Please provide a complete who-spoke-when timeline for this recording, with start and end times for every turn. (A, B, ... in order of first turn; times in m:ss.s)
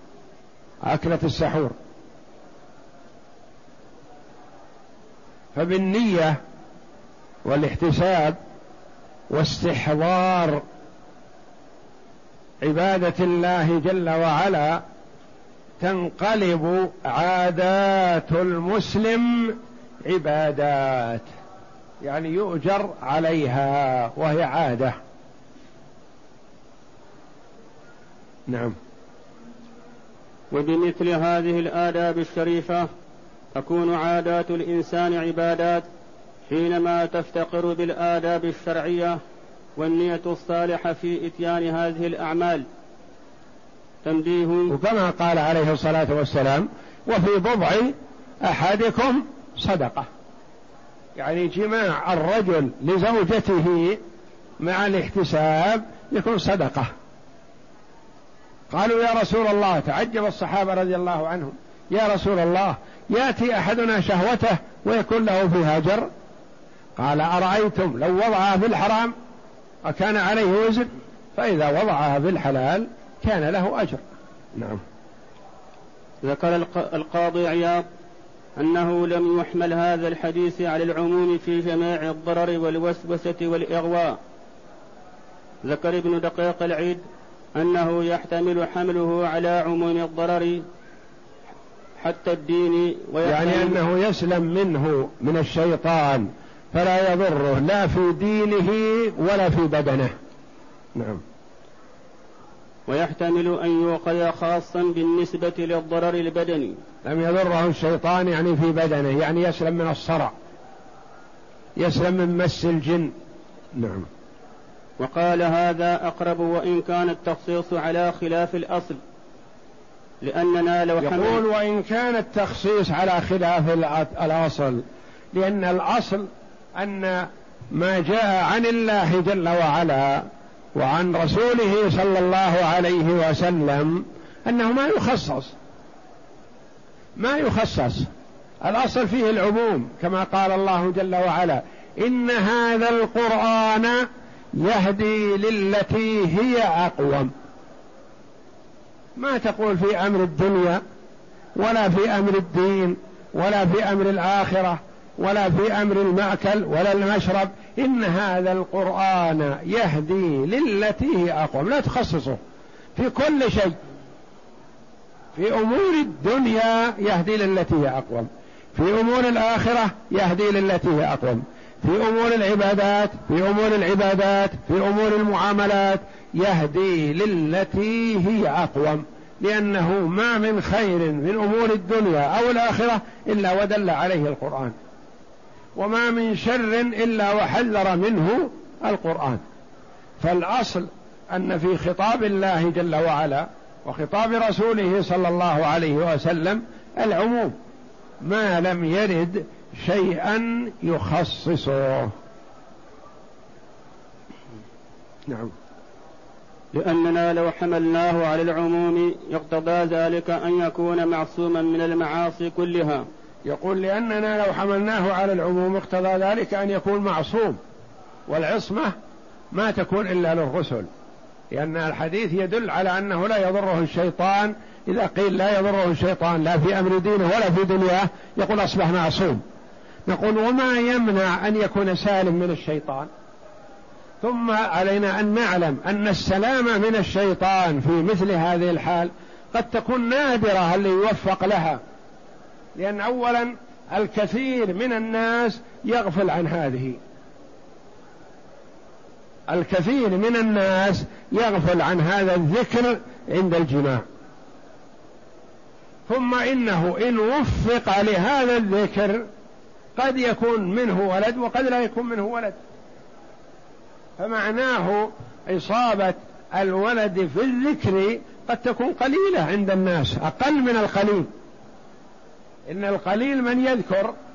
0:00.8-0:01.7 A
0:05.5-0:06.4 A
0:07.4-0:08.4 A
0:09.3-0:10.6 A
0:12.6-0:14.8 A
0:15.8-0:21.3 A
0:22.0-0:25.0 A
0:28.5-0:28.8 A
0:30.5-0:32.9 B
0:33.5-0:35.9 B
0:36.5-0:39.2 B
0:39.8-0:42.6 B
0:44.0-0:44.7 B
0:44.7-0:50.1 A
0:51.2-0:54.0 A
0:54.6-0:56.9 A
0:58.7-1:06.1 A
1:07.0-1:09.1 A
1:09.8-1:14.0 A
1:14.5-1:14.8 A
1:16.2-1:17.9 B
1:18.6-1:24.2 B
1:25.6-1:27.0 B
1:27.5-1:30.6 B
1:32.0-1:33.8 B
1:33.2-1:40.1 A
1:41.0-1:41.2 A
1:42.9-1:46.8 B
1:47.0-1:50.3 A
1:51.8-1:53.1 A
1:53.8-1:54.1 A
1:55.0-1:59.0 B
2:00.2-2:01.4 B
2:01.0-2:15.6 A
2:17.2-2:18.1 A
2:18.6-2:24.0 A
2:24.6-2:27.3 A
2:29.2-2:30.8 A
2:31.6-2:42.4 A
2:42.9-2:43.8 A
2:45.4-3:04.7 A
3:05.8-3:09.4 A
3:10.2-3:17.5 A
3:18.2-3:22.1 A
3:25.3-3:25.5 A
3:26.7-3:33.0 B
3:33.5-3:37.6 A
3:38.3-3:38.9 A
3:39.5-3:40.9 A
3:41.5-3:49.4 A
3:50.1-3:53.1 A
3:54.2-4:01.8 A
4:02.8-4:07.0 A
4:09.5-4:14.0 A
4:16.1-4:19.2 A
4:20.0-4:22.6 A
4:24.2-4:31.3 A
4:32.7-4:34.1 A